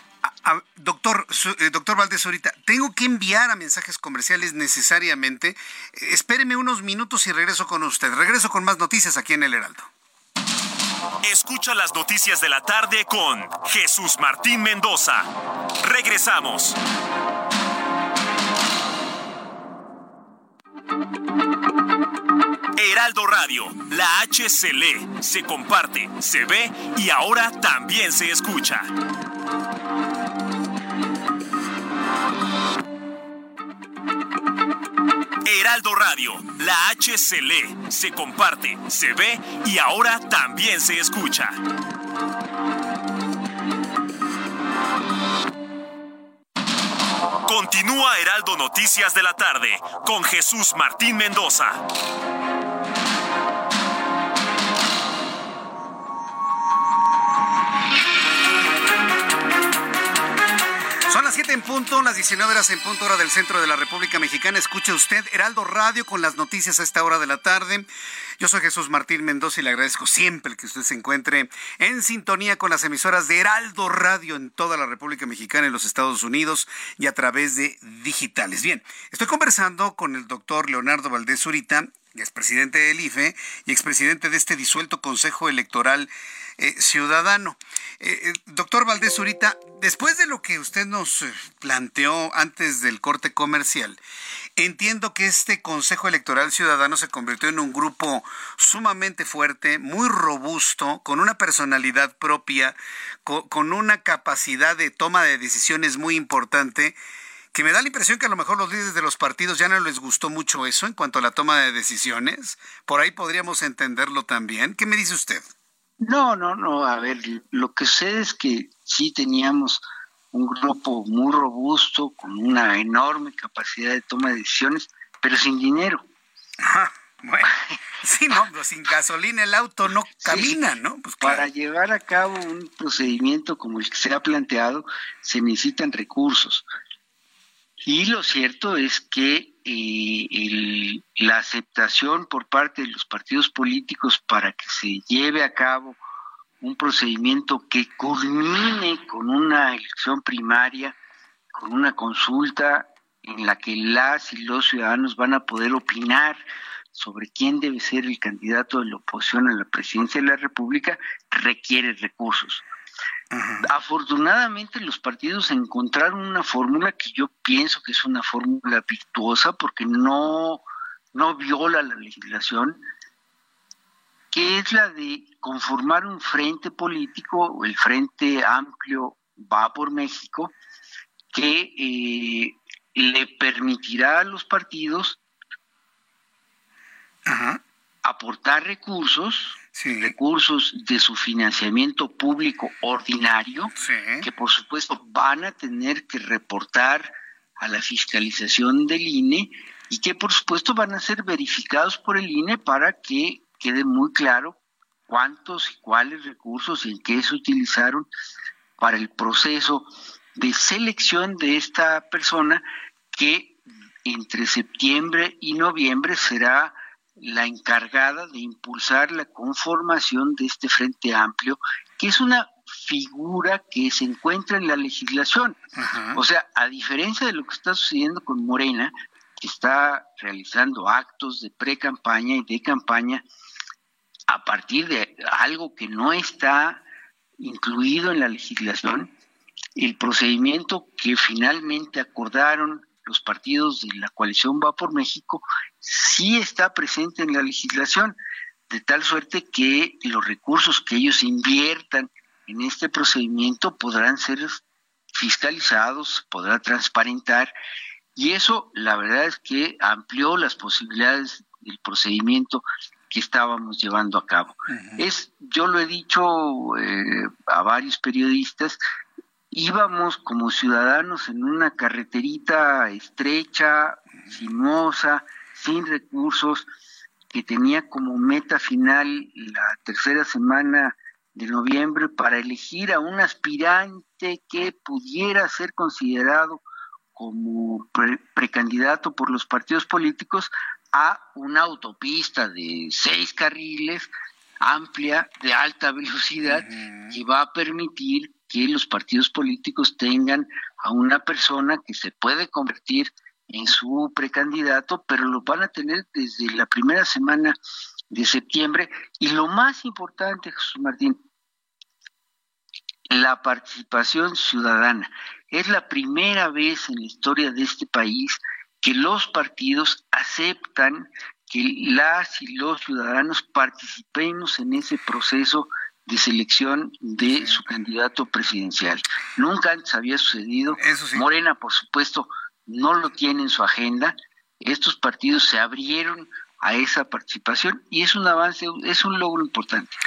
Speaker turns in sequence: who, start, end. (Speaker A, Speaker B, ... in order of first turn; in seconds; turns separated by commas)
Speaker A: 0.2-9.9, Speaker B: 11.2-15.3, Speaker B: 15.8-16.8, Speaker B: 22.8-28.9, Speaker B: 35.4-41.6, Speaker B: 47.5-51.8, Speaker A: 61.1-67.9, Speaker A: 68.4-94.0, Speaker A: 94.6-107.0, Speaker A: 107.5-115.4, Speaker C: 116.0-126.0, Speaker A: 126.6-127.5, Speaker A: 128.0-131.5, Speaker C: 130.2-130.7, Speaker C: 131.2-136.6, Speaker C: 137.8-146.0, Speaker C: 146.6-150.9, Speaker C: 151.5-156.4, Speaker C: 156.9-162.6, Speaker A: 163.3-163.6, Speaker C: 163.6-172.8, Speaker C: 174.3-180.5, Speaker C: 181.3-185.2, Speaker A: 187.2-187.6, Speaker C: 188.0-193.7, Speaker A: 189.7-190.1, Speaker A: 193.8-194.2, Speaker C: 194.2-204.6, Speaker C: 205.1-208.1, Speaker C: 208.8-225.6, Speaker A: 225.8-226.2, Speaker C: 226.1-233.2, Speaker C: 234.3-236.8, Speaker C: 237.4-239.1, Speaker C: 239.8-248.2, Speaker C: 248.7-254.6, Speaker C: 255.1-257.5, Speaker C: 258.1-268.8, Speaker A: 264.7-265.0, Speaker C: 269.5-276.7, Speaker C: 277.3-286.6, Speaker C: 287.1-294.1, Speaker C: 294.6-307.6, Speaker A: 296.5-297.1, Speaker C: 308.1-311.2, Speaker C: 313.1-339.9, Speaker A: 330.8-331.2